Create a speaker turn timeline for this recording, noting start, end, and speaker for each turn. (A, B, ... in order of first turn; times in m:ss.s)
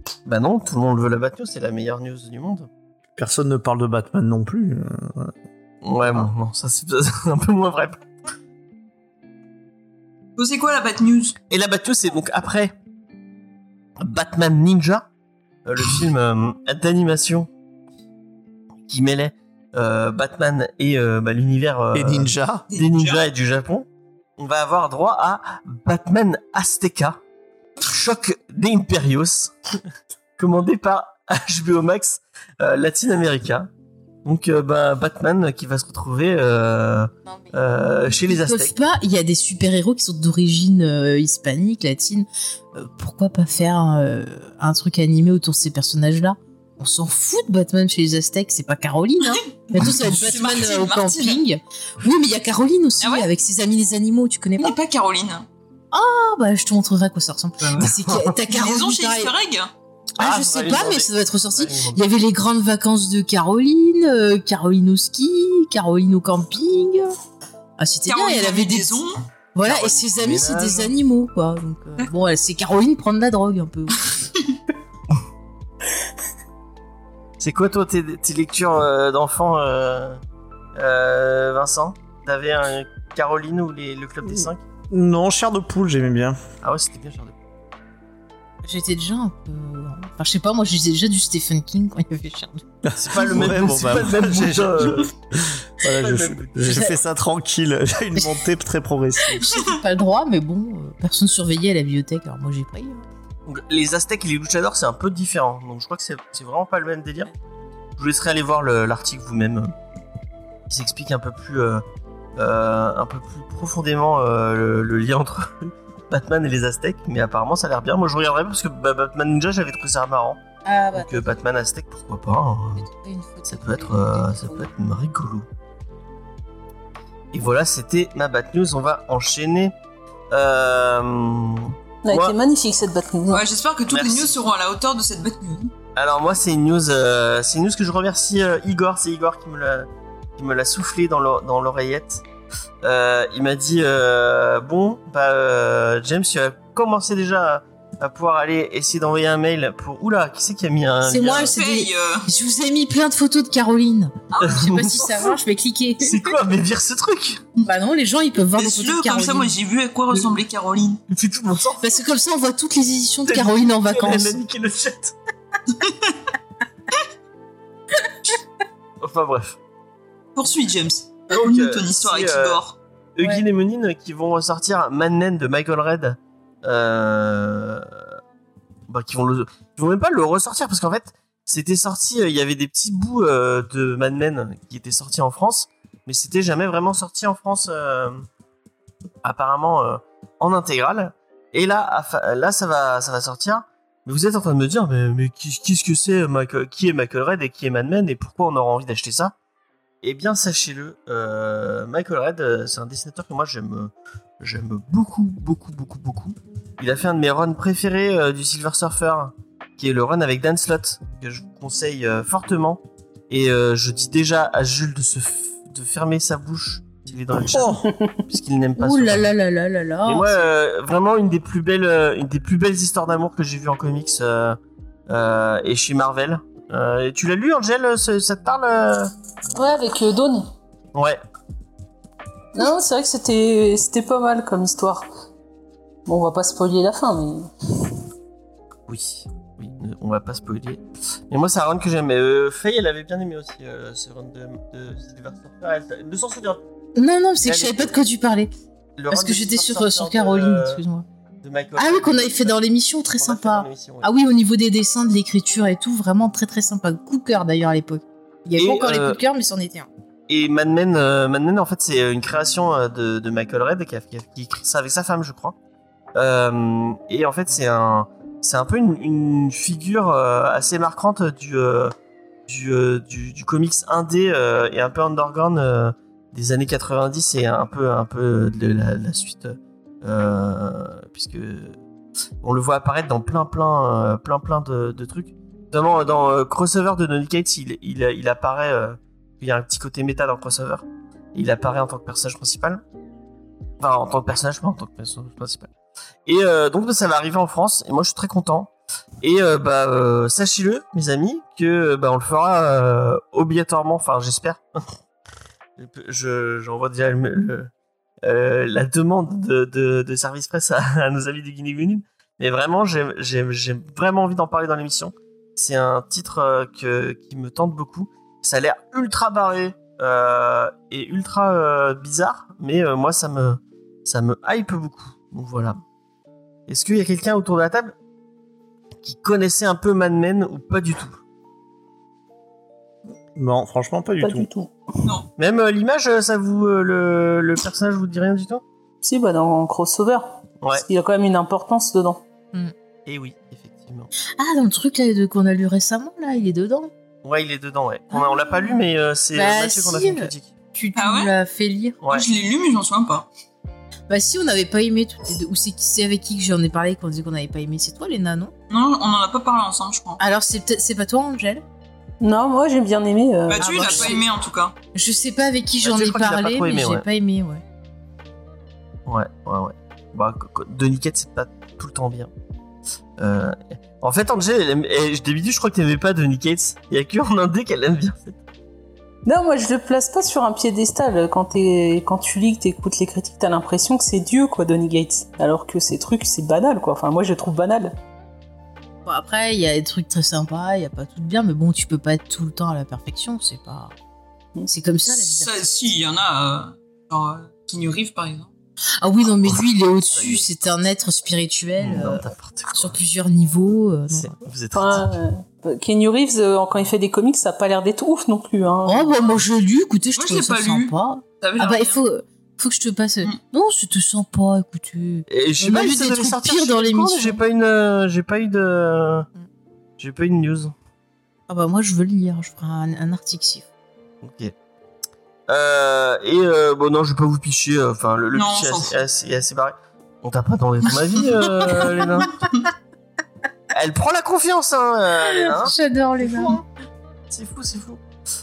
0:00.3-0:02.7 A
0:03.2-0:05.3 B
0:05.8-0:08.0 A
0:10.4-0:11.4 C
0:11.5-0:12.7 A
0:14.0-0:15.1 A
0:15.6-0:17.5 A
0:18.9-0:23.9 A
0:21.9-0:22.7 B
0:22.7-0:23.2 C
0:24.4-0:27.2 A
0:27.8-0:29.5 A
0:30.4-0:33.7 A
0:34.2-0:38.7 A
0:38.2-0:54.8 D
0:49.3-0:51.4 C
0:53.0-0:53.3 C
0:54.6-0:55.5 C
0:55.9-0:59.3 D
0:57.6-0:59.7 C
1:00.2-1:07.1 D
1:00.2-1:02.0 A
1:07.8-1:09.0 D
1:08.1-1:09.2 C
1:09.6-1:14.0 D
1:09.6-1:10.9 A
1:17.4-1:20.2 A
1:20.8-1:24.6 A
1:24.2-1:26.4 B
1:26.6-1:27.4 A
1:28.6-1:32.6 D
1:32.8-1:39.4 B
1:33.0-1:35.1 A
1:35.8-1:36.9 A
1:36.7-1:37.0 D
1:39.4-1:43.1 D
1:43.5-1:47.3 A
1:48.0-1:49.7 A
1:50.7-1:51.8 A
1:52.4-2:00.4 A
2:00.6-2:01.4 D
2:00.9-2:02.8 A
2:02.8-2:04.7 D
2:03.5-2:05.5 A
2:07.3-2:09.7 A
2:10.3-2:12.4 A
2:12.0-2:13.4 E
2:13.3-2:15.7 C
2:13.9-2:14.4 A
2:16.0-2:22.2 A
2:22.8-2:31.5 A
2:31.0-2:36.3 D
2:31.4-2:32.3 C
2:34.3-2:34.7 C
2:34.4-2:35.2 A
2:36.0-2:37.4 A
2:37.6-2:39.5 D
2:38.5-2:41.0 C
2:41.1-2:41.9 A
2:41.8-2:44.4 D
2:43.3-2:45.2 A
2:45.7-2:46.2 C
2:49.0-2:49.6 A
2:50.4-2:52.8 C
2:51.3-2:52.6 A
2:53.2-2:57.9 A
2:58.9-3:08.3 A
3:09.2-3:19.3 A
3:20.0-3:39.3 A
3:37.5-3:37.9 B
3:37.8-3:38.2 E
3:38.8-3:40.5 D
3:40.1-3:44.6 A
3:45.1-3:49.1 A
3:49.6-3:50.5 E
3:52.6-3:55.1 E
3:56.1-3:57.9 E
3:58.9-4:06.6 A
4:07.0-4:08.5 D
4:07.4-4:08.0 A
4:09.0-4:10.8 A
4:09.1-4:11.0 D
4:11.4-4:12.6 A
4:11.8-4:19.9 D
4:13.2-4:14.1 A
4:18.6-4:19.2 A
4:20.3-4:25.6 A
4:26.2-4:32.0 A
4:32.5-4:41.8 A
4:42.4-4:50.8 A
4:51.4-4:52.8 A
4:53.8-4:55.7 A
4:56.3-4:58.7 A
4:59.2-5:04.6 A
5:05.8-5:07.7 A
5:08.2-5:25.8 A
5:26.7-5:27.9 A
5:29.0-5:31.2 A
5:33.4-5:34.5 B
5:34.2-5:35.2 E
5:35.4-5:38.6 A
5:39.0-5:42.2 E
5:43.1-5:44.1 A
5:44.4-5:46.9 D
5:47.2-5:50.5 A
5:48.1-5:48.7 D
5:49.4-5:52.0 D
5:51.0-5:51.3 C
5:52.0-5:52.3 A
5:52.1-5:53.3 C
5:54.1-5:58.5 D
5:58.7-6:00.2 C
6:00.2-6:01.6 D
6:02.2-6:04.2 E
6:03.5-6:04.8 C
6:03.6-6:04.2 D
6:04.9-6:07.6 D
6:05.8-6:07.0 A
6:09.1-6:12.3 A
6:13.2-6:18.4 A
6:19.3-6:28.0 E
6:29.1-6:33.9 D
6:34.7-6:35.9 D
6:35.1-6:38.5 C
6:39.0-6:44.3 D
6:39.4-6:40.5 A
6:41.8-6:43.0 A
6:44.1-6:45.1 A
6:44.7-6:49.2 E
6:48.8-6:57.4 D
6:50.2-6:52.0 C
6:55.3-6:59.3 A
7:00.0-7:00.7 A
7:01.5-7:03.7 D
7:04.2-7:04.5 A
7:05.5-7:12.3 A
7:08.3-7:09.0 C
7:13.7-7:16.6 A
7:15.2-7:16.6 D
7:17.3-7:18.0 A